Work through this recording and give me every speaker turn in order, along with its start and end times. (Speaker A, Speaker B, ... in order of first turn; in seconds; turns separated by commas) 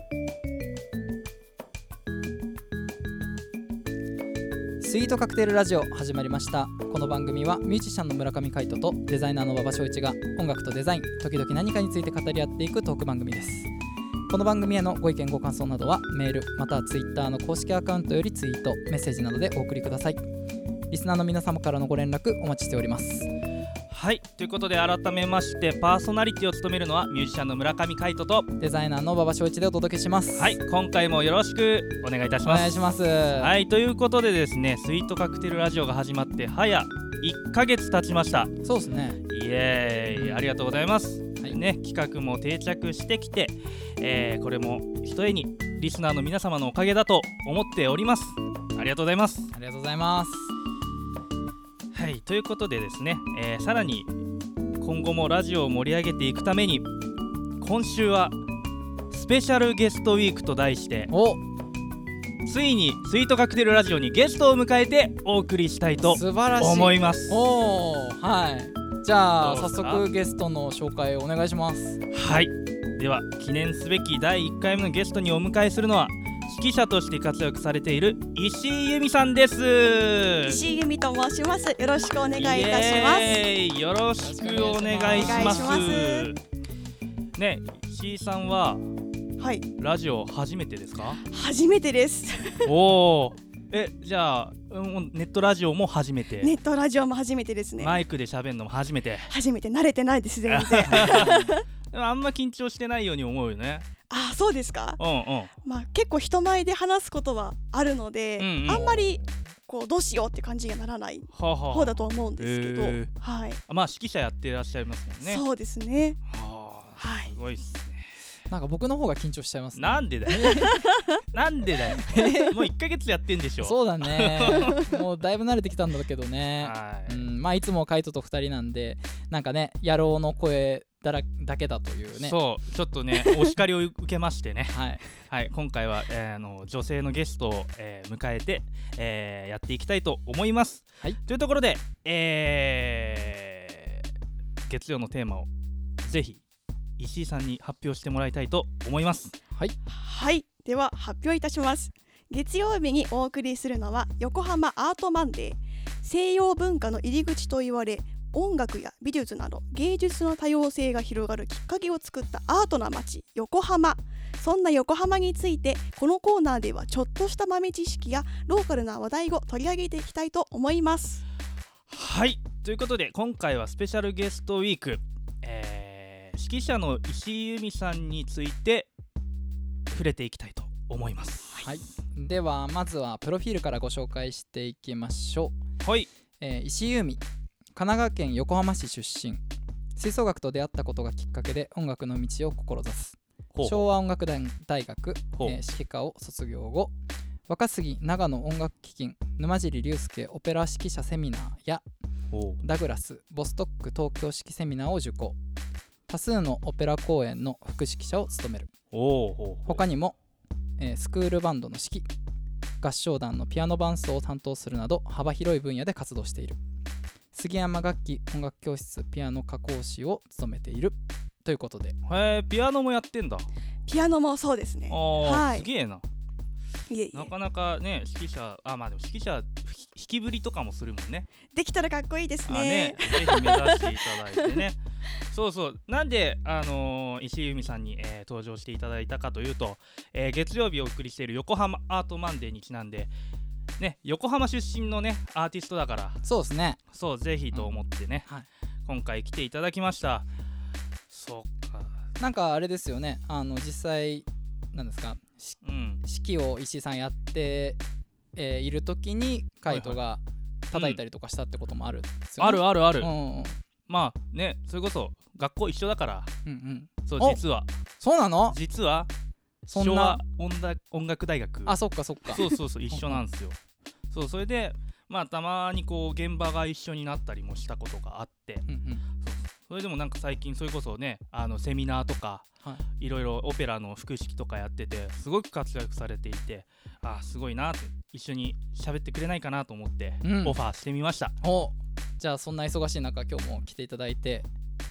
Speaker A: 4.8-13.7, Speaker A: 14.3-20.2, Speaker A: 20.9-23.3, Speaker B: 23.9-28.5, Speaker A: 28.6-30.6, Speaker B: 30.4-38.5, Speaker A: 32.4-33.5, Speaker A: 38.6-39.2, Speaker B: 39.3-49.5, Speaker A: 40.1-40.5, Speaker A: 49.5-50.5, Speaker B: 51.9-54.1, Speaker B: 54.8-56.9, Speaker B: 57.6-58.4, Speaker B: 59.1-61.1, Speaker A: 61.1-61.4, Speaker B: 62.5-67.5, Speaker A: 66.0-72.0, Speaker B: 69.4-70.0, Speaker B: 72.1-80.7, Speaker C: 80.5-83.5, Speaker B: 82.4-86.4, Speaker A: 84.2-86.0, Speaker C: 85.0-86.3, Speaker B: 87.4-88.9, Speaker C: 89.4-89.7, Speaker B: 89.8-91.2, Speaker C: 91.1-92.7, Speaker B: 92.7-96.5, Speaker C: 96.4-98.0, Speaker B: 97.8-99.3, Speaker C: 99.3-101.6, Speaker B: 100.5-103.9, Speaker A: 100.9-101.5, Speaker C: 104.1-105.0, Speaker B: 105.0-105.5, Speaker C: 105.6-113.6, Speaker B: 108.4-109.1, Speaker B: 111.3-113.1, Speaker B: 113.7-115.5, Speaker C: 115.2-116.2, Speaker B: 116.3-118.1, Speaker C: 117.0-117.4, Speaker A: 118.5-120.8, Speaker B: 119.8-120.5, Speaker C: 120.4-121.1, Speaker B: 121.3-124.9, Speaker A: 121.9-122.7, Speaker A: 123.6-132.4, Speaker B: 126.6-127.3, Speaker B: 132.1-144.1, Speaker A: 134.7-135.0, Speaker B: 144.7-145.5, Speaker B: 146.0-146.4, Speaker B: 147.0-149.3, Speaker C: 149.9-171.2, Speaker B: 171.9-178.9, Speaker B: 179.9-181.8, Speaker A: 181.6-185.6, Speaker B: 185.8-186.1, Speaker A: 186.4-187.2, Speaker A: 187.8-189.4, Speaker A: 190.0-196.9, Speaker B: 193.5-193.8, Speaker A: 197.5-201.8, Speaker B: 202.3-202.6, Speaker A: 202.6-205.4, Speaker A: 206.1-208.7, Speaker B: 208.9-209.8, Speaker A: 209.7-210.2, Speaker A: 210.8-212.1, Speaker A: 212.8-216.6, Speaker A: 217.3-221.9, Speaker B: 222.1-223.5, Speaker C: 223.9-225.7, Speaker B: 224.9-226.1, Speaker C: 226.9-227.3, Speaker B: 227.1-231.3, Speaker C: 231.5-234.6, Speaker B: 232.5-234.8, Speaker B: 235.3-243.1, Speaker B: 243.8-246.2, Speaker A: 246.2-246.8, Speaker B: 246.9-248.3, Speaker B: 248.9-250.2, Speaker B: 251.1-252.0, Speaker A: 252.2-257.8, Speaker B: 255.6-256.0, Speaker A: 258.4-263.6, Speaker B: 259.7-260.0, Speaker B: 260.7-261.0, Speaker B: 262.4-263.1, Speaker B: 263.9-266.3, Speaker A: 266.4-267.4, Speaker B: 267.1-267.7, Speaker A: 268.0-268.6, Speaker B: 268.5-269.1, Speaker B: 269.7-273.6, Speaker A: 269.7-270.2, Speaker A: 271.7-273.2, Speaker B: 274.1-278.6, Speaker A: 278.7-279.0, Speaker B: 279.2-282.4, Speaker B: 283.0-291.4, Speaker A: 290.2-290.6, Speaker A: 291.4-294.5